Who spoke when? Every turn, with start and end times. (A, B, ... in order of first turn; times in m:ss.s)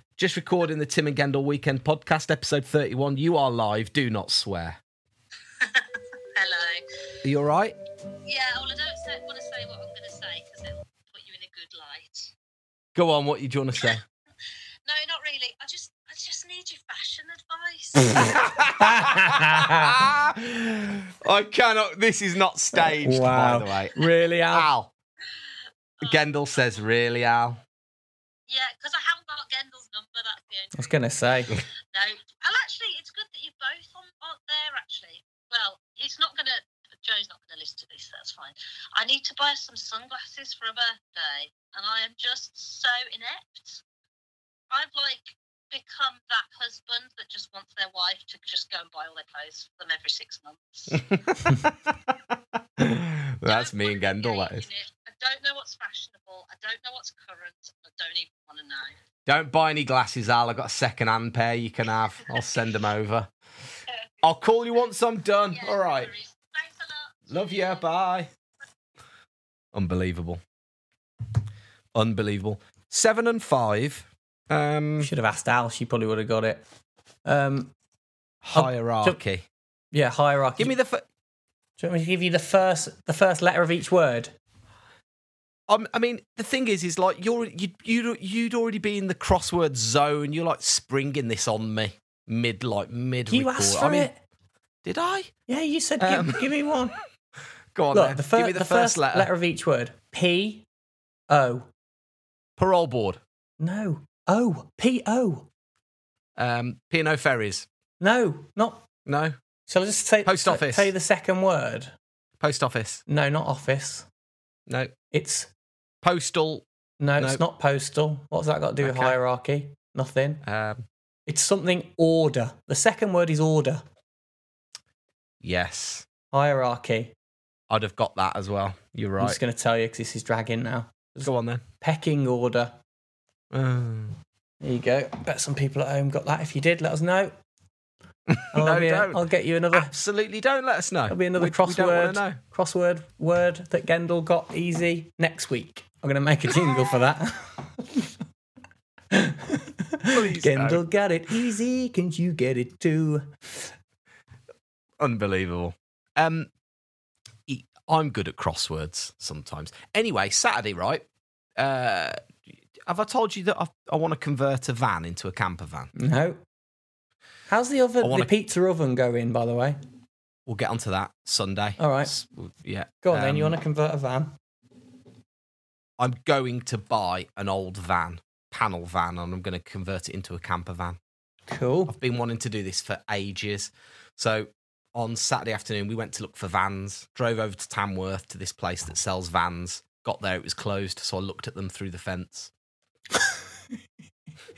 0:00.2-0:04.8 A
0:05.6-0:06.8 B
0:07.2-0:07.8 A
0:08.2-0:12.3 B
0:13.0-0:14.0 A
0:14.8-0:18.4 B
0:18.2-0:24.0 A
0:18.8-0:19.9 C
0:22.7-0:24.7 C
0:24.5-0:24.9 A
0:26.0-0:27.6 A
0:28.5-0:31.0 B
0:30.7-0:31.5 C
0:31.9-0:43.8 B
0:44.7-0:51.1 B
0:50.9-0:52.1 A
0:52.8-0:54.7 A
0:53.4-0:58.9 B
0:59.2-1:03.3 A
1:04.2-1:06.1 A
1:05.5-1:07.9 B
1:07.3-1:08.3 A
1:09.7-1:10.4 A
1:11.9-1:15.1 A
1:15.0-1:16.6 C
1:17.2-1:17.7 C
1:18.4-1:19.4 A
1:18.5-1:19.2 C
1:19.9-1:20.7 C
1:20.6-1:21.0 A
1:21.8-1:24.3 C
1:25.7-1:34.1 A
1:33.3-1:34.2 C
1:34.8-1:35.3 A
1:35.5-1:36.9 C
1:36.0-1:36.4 A
1:37.7-1:39.3 A
1:37.9-1:40.6 C
1:41.3-1:41.7 C
1:42.6-1:43.2 A
1:43.6-1:45.5 C
1:46.4-1:47.6 A
1:48.0-1:48.8 C
1:49.0-1:49.4 A
1:49.7-1:51.9 C
1:50.2-1:50.9 A
1:52.4-1:53.0 A
1:53.1-1:54.1 C
1:55.1-1:55.5 C
1:56.0-1:56.6 A
1:57.0-2:00.4 C
1:58.8-1:59.2 A
2:00.4-2:00.8 A
2:01.3-2:03.8 C
2:05.4-2:06.0 A
2:06.3-2:07.1 C
2:07.7-2:09.4 A
2:09.2-2:12.8 C
2:11.2-2:11.6 A
2:13.5-2:14.2 A
2:14.6-2:17.3 C
2:18.3-2:19.2 A
2:18.5-2:19.9 C
2:19.7-2:22.4 A
2:21.1-2:28.1 C
2:29.1-2:33.7 C
2:30.1-2:30.8 A
2:35.0-2:36.5 A
2:37.5-2:41.0 A
2:41.6-2:42.2 A
2:42.9-2:45.9 A
2:46.0-2:46.4 C
2:47.5-2:49.8 C
2:48.0-2:48.3 A
2:50.5-2:53.6 A
2:51.8-2:52.1 C
2:53.0-2:54.3 C
2:56.0-3:01.0 A
3:01.5-3:01.9 C
3:01.9-3:12.5 A